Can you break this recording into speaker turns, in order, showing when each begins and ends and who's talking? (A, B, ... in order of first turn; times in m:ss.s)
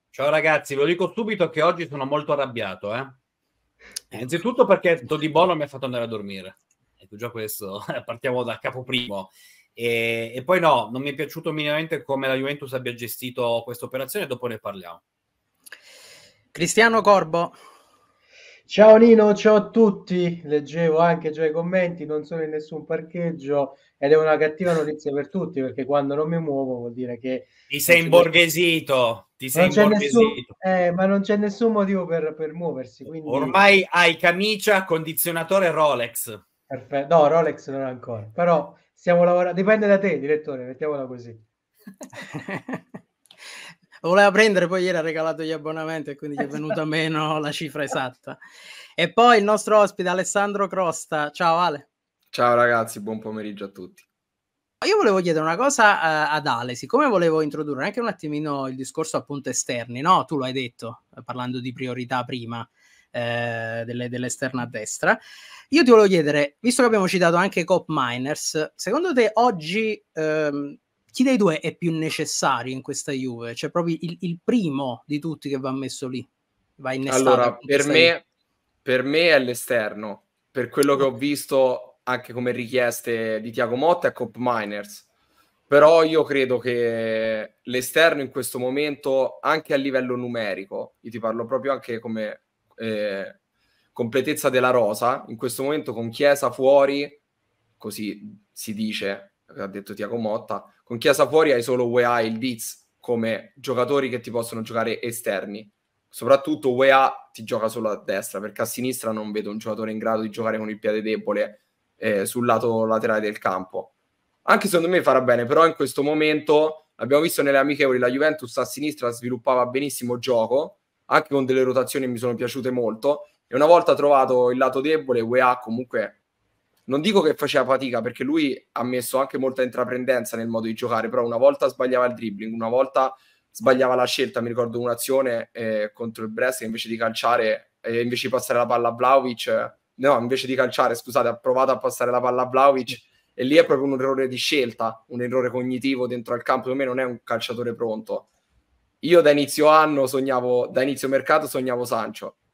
0:00.1-0:03.2 A
0:04.1-0:15.0 A
0:16.5-0:17.6 B
0:18.7-0:28.3 C
0:27.7-0:30.5 A
0:29.6-0:33.6 C
0:33.2-0:36.4 A
0:36.7-0:41.4 C
0:42.3-0:42.8 B
0:44.0-0:48.4 B
0:49.0-0:51.9 B
0:52.3-0:54.0 D
0:54.8-1:05.2 B
1:05.7-1:18.1 B
1:17.1-1:18.2 D
1:18.8-1:25.1 D
1:25.7-1:33.4 D
1:34.0-1:37.2 D
1:37.8-1:53.9 D
1:54.5-2:06.2 D
2:06.9-2:28.3 D
2:29.0-2:32.4 D